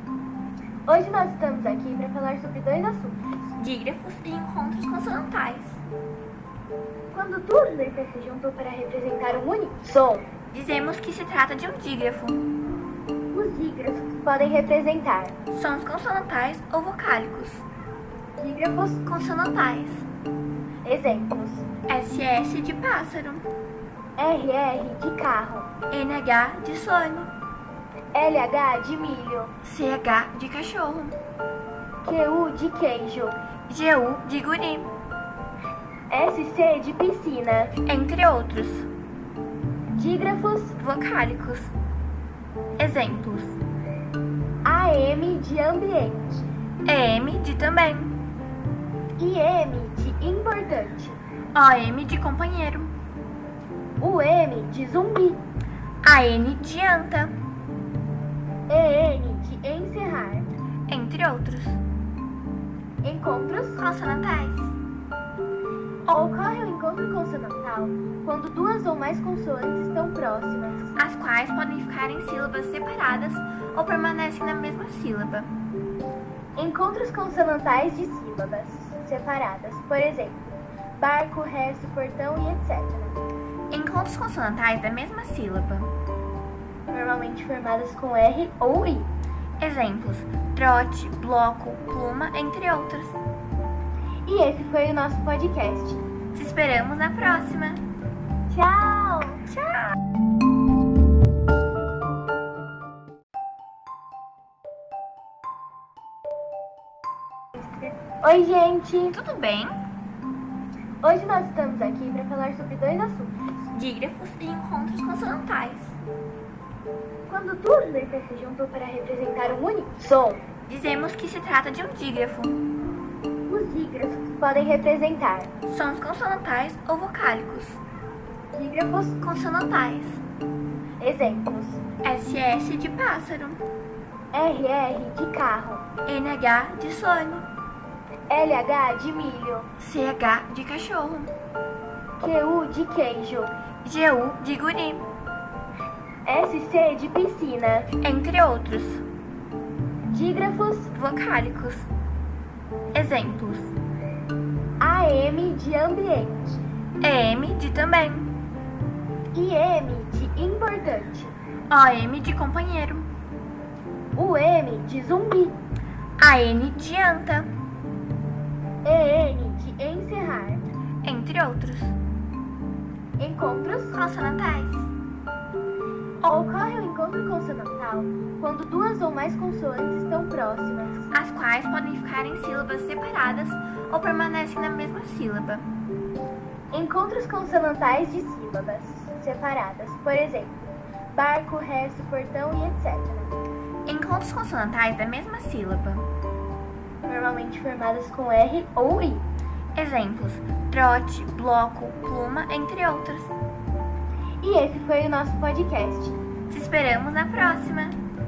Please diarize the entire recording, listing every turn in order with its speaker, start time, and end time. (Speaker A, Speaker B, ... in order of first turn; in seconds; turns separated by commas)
Speaker A: 0.9-3.3, Speaker B: 3.5-5.8, Speaker A: 7.1-10.3, Speaker B: 10.5-12.4, Speaker A: 13.3-15.3, Speaker B: 15.5-17.6, Speaker A: 18.4-19.0, Speaker B: 19.1-20.1, Speaker A: 20.8-21.6, Speaker B: 21.9-23.4, Speaker A: 24.2-25.7, Speaker B: 25.9-27.3, Speaker A: 28.1-29.5, Speaker B: 29.6-31.1, Speaker A: 32.0-33.4, Speaker B: 33.7-34.9, Speaker A: 36.1-37.7, Speaker B: 37.8-38.9, Speaker A: 39.9-40.8, Speaker B: 40.8-41.7, Speaker B: 42.8-43.6, Speaker A: 44.6-46.5, Speaker B: 46.8-48.1, Speaker A: 49.2-51.2, Speaker B: 51.5-52.9, Speaker A: 54.0-55.4, Speaker B: 56.0-57.4, Speaker A: 58.7-60.5, Speaker B: 60.9-61.8, Speaker A: 63.0-63.8, Speaker B: 63.8-64.7, Speaker A: 66.1-71.0, Speaker B: 71.0-75.5, Speaker A: 76.6-80.4, Speaker A: 81.0-83.2, Speaker B: 83.7-85.9, Speaker A: 86.9-89.1, Speaker B: 89.6-93.2, Speaker A: 94.2-96.1, Speaker B: 96.3-97.8, Speaker A: 98.5-99.4, Speaker B: 99.5-99.9, Speaker A: 107.5-109.2, Speaker B: 109.1-109.7, Speaker A: 111.0-113.3, Speaker B: 113.7-116.0, Speaker A: 117.3-120.5, Speaker B: 120.7-122.6, Speaker A: 123.5-125.5, Speaker B: 125.7-127.8, Speaker A: 128.5-129.2, Speaker B: 129.2-130.2, Speaker A: 131.0-131.8, Speaker B: 132.0-133.6, Speaker A: 134.3-135.8, Speaker B: 136.1-137.5, Speaker A: 138.3-139.7, Speaker B: 139.8-141.3, Speaker A: 142.2-143.5, Speaker B: 143.8-145.1, Speaker A: 146.2-147.9, Speaker B: 148.0-149.0, Speaker A: 150.1-150.9, Speaker B: 150.9-151.9, Speaker B: 152.9-153.7, Speaker A: 154.8-156.6, Speaker B: 157.0-158.3, Speaker A: 159.3-161.4, Speaker B: 161.7-163.1, Speaker A: 164.1-165.6, Speaker B: 166.2-167.5, Speaker A: 168.8-170.6, Speaker B: 171.0-172.0, Speaker A: 173.2-174.0, Speaker B: 173.9-174.9, Speaker A: 176.2-181.1, Speaker B: 181.1-185.7, Speaker A: 186.7-190.6, Speaker A: 191.1-193.4, Speaker B: 193.8-196.1, Speaker A: 197.1-199.2, Speaker B: 199.7-203.3, Speaker A: 204.4-206.2, Speaker B: 206.5-208.0